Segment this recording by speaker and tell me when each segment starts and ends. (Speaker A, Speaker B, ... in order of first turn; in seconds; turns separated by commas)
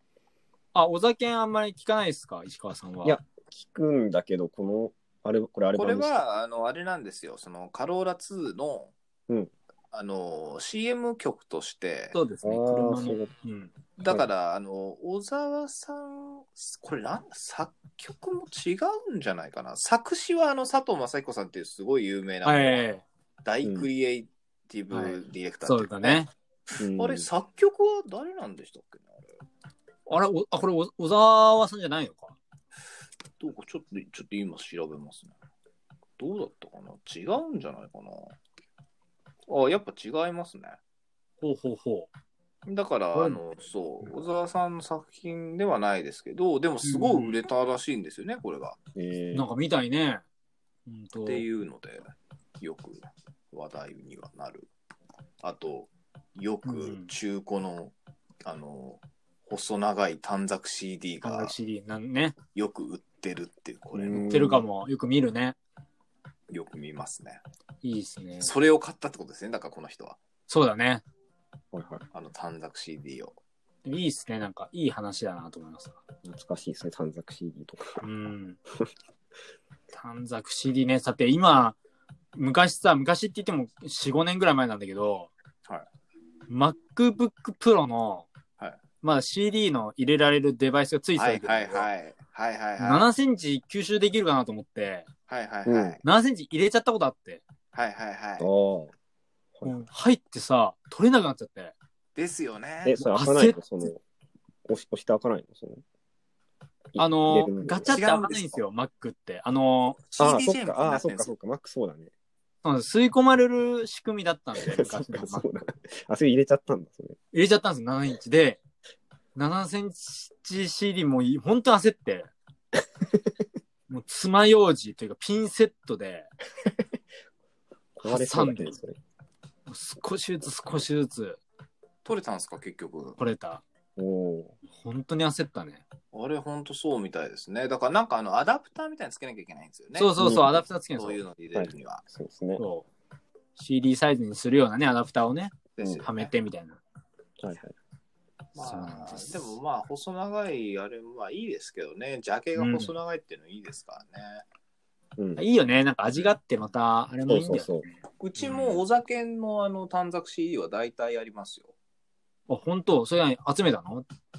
Speaker A: 0.7-3.2, Speaker B: 3.0-6.1, Speaker C: 5.7-8.9, Speaker C: 9.9-12.2, Speaker A: 12.1-13.7, Speaker B: 12.4-13.3, Speaker C: 14.0-22.8, Speaker A: 22.4-23.0, Speaker C: 23.4-29.2, Speaker A: 24.9-26.3, Speaker B: 26.8-27.3, Speaker A: 30.1-32.4, Speaker C: 33.4-35.3, Speaker C: 36.2-38.3, Speaker C: 39.5-40.8, Speaker A: 41.4-42.1, Speaker C: 42.6-48.8, Speaker A: 43.1-43.4, Speaker A: 46.8-47.4, Speaker B: 48.9-49.5, Speaker A: 49.3-50.2, Speaker A: 50.9-51.5, Speaker C: 51.2-52.0, Speaker C: 52.6-54.7, Speaker C: 55.4-57.9, Speaker A: 56.6-57.1, Speaker C: 58.4-61.5, Speaker A: 61.2-62.4, Speaker C: 62.5-64.3, Speaker B: 63.9-64.7, Speaker A: 64.3-65.6, Speaker C: 66.5-67.4, Speaker A: 67.8-68.5, Speaker C: 68.4-70.2, Speaker A: 70.5-71.0, Speaker B: 71.7-72.0, Speaker C: 72.1-73.3, Speaker A: 73.8-76.0, Speaker B: 76.2-78.0, Speaker A: 78.0-78.6, Speaker A: 79.9-81.8, Speaker A: 82.3-85.3, Speaker A: 86.5-88.3, Speaker A: 89.0-91.9, Speaker C: 91.2-93.1, Speaker A: 92.8-95.1, Speaker C: 95.3-96.0, Speaker B: 95.6-96.0, Speaker A: 96.0-97.4, Speaker C: 97.7-98.5, Speaker B: 98.4-98.9, Speaker B: 99.5-99.8, Speaker A: 99.6-101.7, Speaker C: 102.2-103.0, Speaker B: 102.8-104.0, Speaker A: 103.0-103.6, Speaker B: 104.7-105.8, Speaker B: 106.9-108.0, Speaker A: 107.0-110.0, Speaker C: 107.8-108.6, Speaker C: 110.1-111.3, Speaker B: 110.2-112.1, Speaker A: 112.6-115.5, Speaker B: 114.6-117.2, Speaker A: 117.3-118.6, Speaker A: 119.3-122.3, Speaker A: 123.9-126.3, Speaker B: 127.9-129.0, Speaker A: 128.0-128.7, Speaker A: 129.7-131.4, Speaker C: 132.0-133.2, Speaker A: 133.2-133.6, Speaker B: 134.0-134.6, Speaker A: 134.7-135.8, Speaker C: 136.1-140.1, Speaker A: 139.9-141.2, Speaker B: 140.2-140.6, Speaker C: 140.9-142.0, Speaker B: 141.5-142.6, Speaker A: 142.6-142.9, Speaker A: 143.6-146.8, Speaker C: 145.8-146.3, Speaker B: 147.4-147.7, Speaker A: 148.5-149.6, Speaker C: 148.6-154.4, Speaker A: 152.6-152.9, Speaker B: 155.2-155.4, Speaker A: 155.4-157.8, Speaker B: 157.3-157.8, Speaker C: 158.2-161.7, Speaker A: 158.4-158.8, Speaker A: 162.5-164.0